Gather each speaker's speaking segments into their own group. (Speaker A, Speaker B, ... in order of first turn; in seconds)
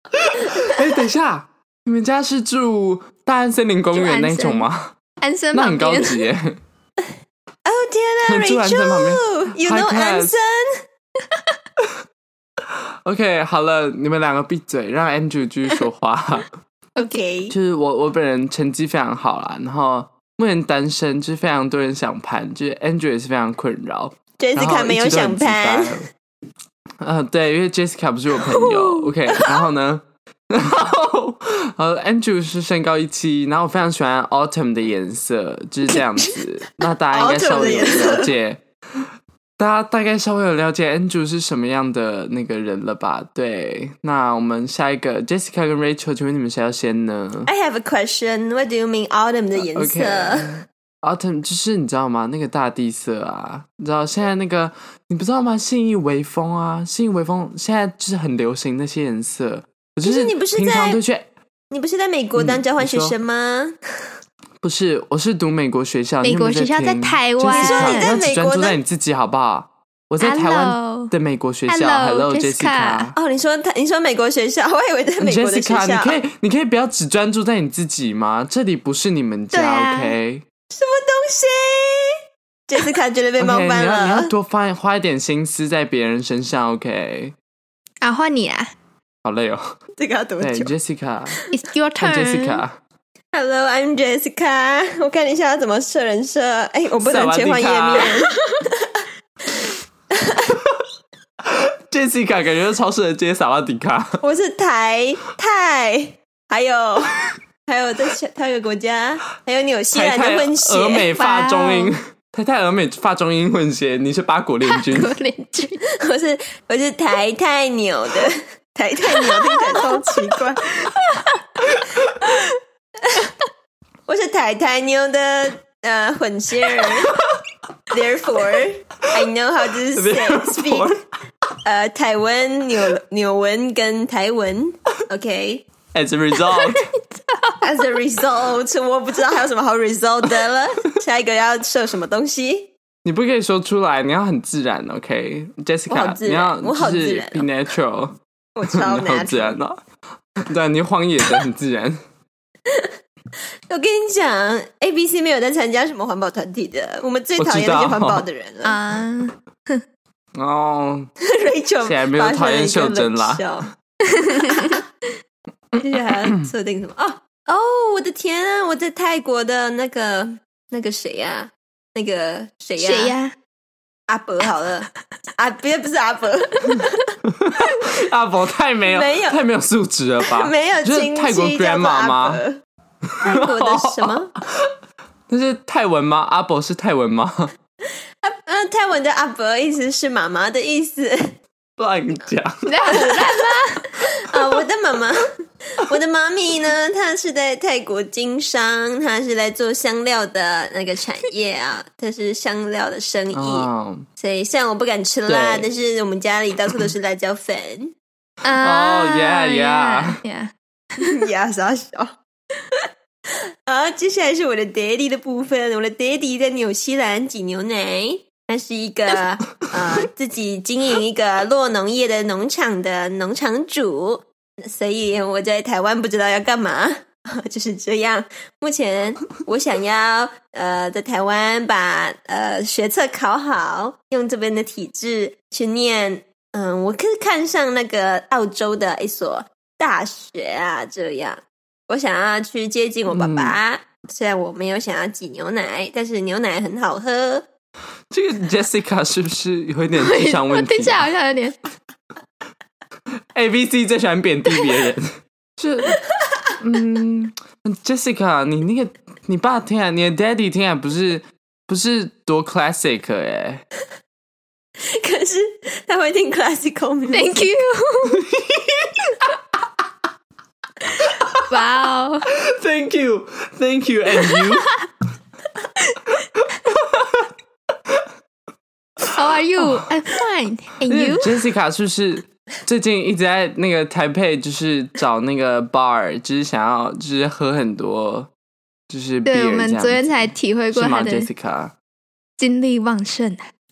Speaker A: 0.2-5.0, 5.5-6.6, 8.3-10.3, 13.0-16.5, 17.5-26.1, 27.0-38.6, 39.6-47.5, 49.6-61.3, 62.4-63.1, 64.6-73.2, 75.2-80.5, 83.4-87.3, 89.2-89.6, 90.4-91.3, 92.0-92.8, 97.0-98.1, 101.5-104.2, 109.9-115.2, 129.9-131.0, 135.9-136.8, 143.1-148.2, 148.7-149.8, 150.4-152.0, 157.4-158.2, 160.4-161.1, 161.8-163.4, 177.2-182.4, 183.1-184.7, 185.3-187.5, 191.8-193.2, 203.3-204.1, 205.3-205.7, 208.6-210.2, 243.1-243.6, 248.1-251.1, 253.3-256.0, 256.6-263.6, 268.1-269.1, 271.2-271.4, 272.4-274.7, 276.4-277.3, 279.0-279.9, 280.9-288.3, 288.9-291.7
Speaker B: 3.9-4.7, 5.2-6.2, 28.4-29.1, 66.2-68.1, 70.2-71.1, 71.7-73.1, 79.5-80.2, 88.0-88.7, 91.5-92.6, 111.2-111.9, 114.7-115.8, 120.8-121.4, 136.3-137.5, 158.6-159.8, 164.2-164.8, 172.8-173.3, 192.7-193.9, 208.4-211.2, 250.0-251.6, 267.1-268.2, 271.5-272.3, 274.2-274.7, 279.1-281.4, 289.2-291.3, 292.4-293.5
Speaker C: 7.7-10.8, 17.0-17.5, 24.4-25.9, 37.1-38.3, 47.5-50.5, 60.0-61.0, 61.7-63.8, 67.5-68.8, 73.1-76.2, 80.7-82.1, 82.7-84.3, 90.0-90.7, 93.3-99.1, 100.1-100.6, 104.2-111.1, 115.8-120.7, 124.1-127.2, 127.9-130.9, 131.6-135.7, 137.6-142.7, 145.9-147.5, 148.6-149.6, 153.7-158.8, 161.3-163.7, 164.3-164.8, 165.8-173.1, 174.1-174.9, 175.4-177.1, 178.8-179.4, 180.3-182.6, 183.2-184.3, 188.2-191.3, 192.9-193.4, 194.0-207.9, 211.0-212.1, 213.7-247.4, 264.8-267.5